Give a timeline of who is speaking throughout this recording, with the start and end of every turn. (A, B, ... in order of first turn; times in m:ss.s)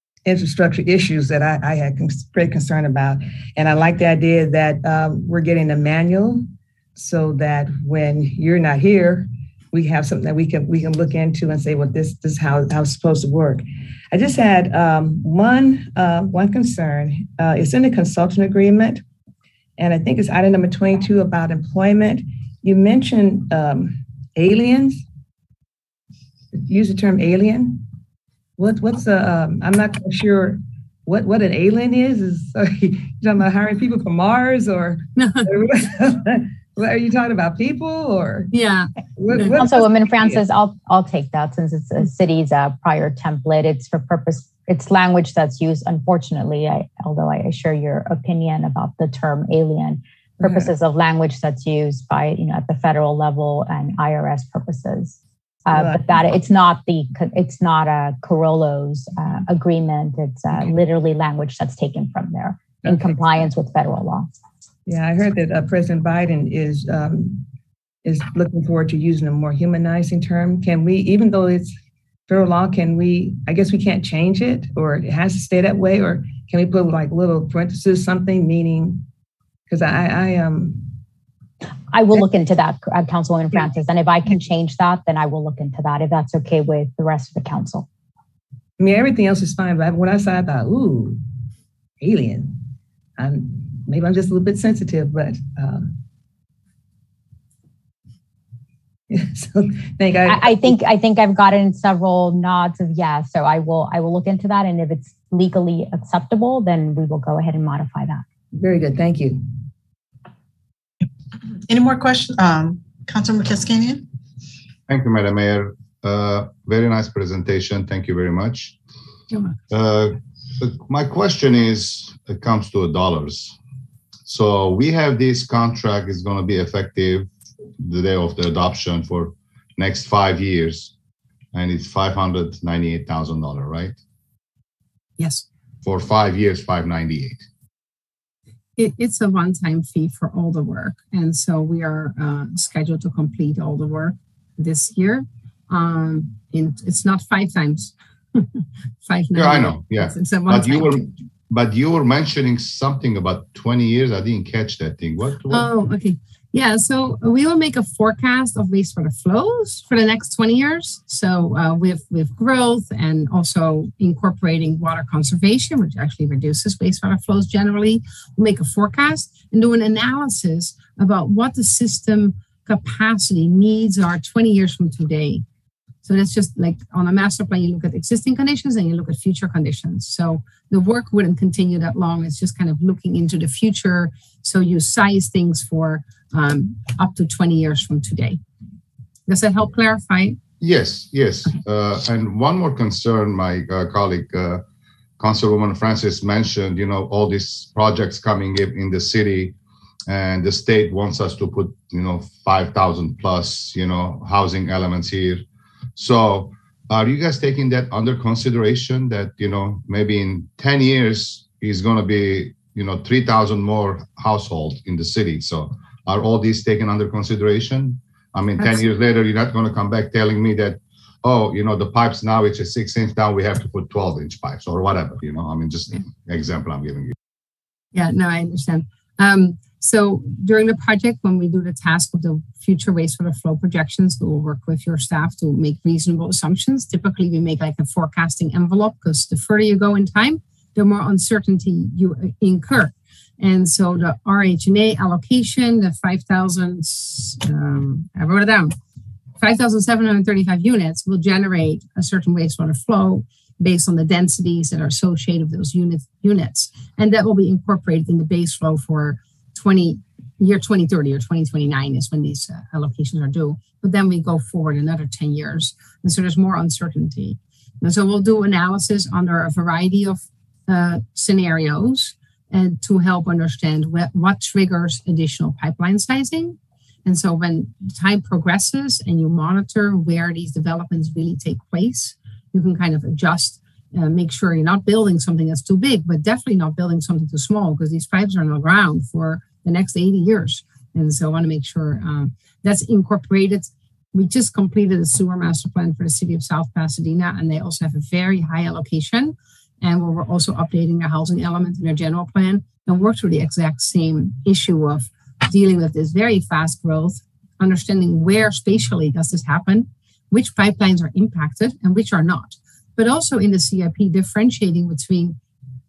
0:00.2-0:19.0 A
0:19.8-0:25.0 A
0:26.5-0:27.9 A
0:28.6-0:38.5 A
0:35.2-0:35.5 B
0:38.5-0:39.6 B
0:39.2-0:40.4 A
0:39.5-1:04.3 C
0:50.4-0:50.7 A
0:55.7-0:56.1 A
1:02.8-1:03.5 A
1:04.9-1:07.5 A
1:08.0-1:11.8 A
1:12.3-1:19.1 A
1:19.7-1:20.9 A
1:21.9-1:27.9 C
1:28.8-1:31.2 A
1:32.0-1:32.6 A
1:33.2-1:35.9 A
1:39.1-1:40.8 A
1:40.3-1:48.2 C
1:48.6-1:49.5 A
1:51.6-1:54.1 D
1:54.9-1:58.8 E
1:59.7-2:03.6 E
2:04.3-2:10.9 E
2:11.5-2:14.0 E
2:15.2-2:15.5 B
2:15.8-2:17.5 E
2:18.8-2:31.0 B
2:29.3-2:35.7 E
2:35.5-2:55.4 B
2:56.0-3:08.4 B
3:09.3-3:10.4 B
3:10.6-3:14.6 E
3:15.2-3:19.6 E
3:20.1-3:25.4 E
3:26.0-3:47.2 E
3:47.9-4:08.8 B
4:09.4-5:15.4 B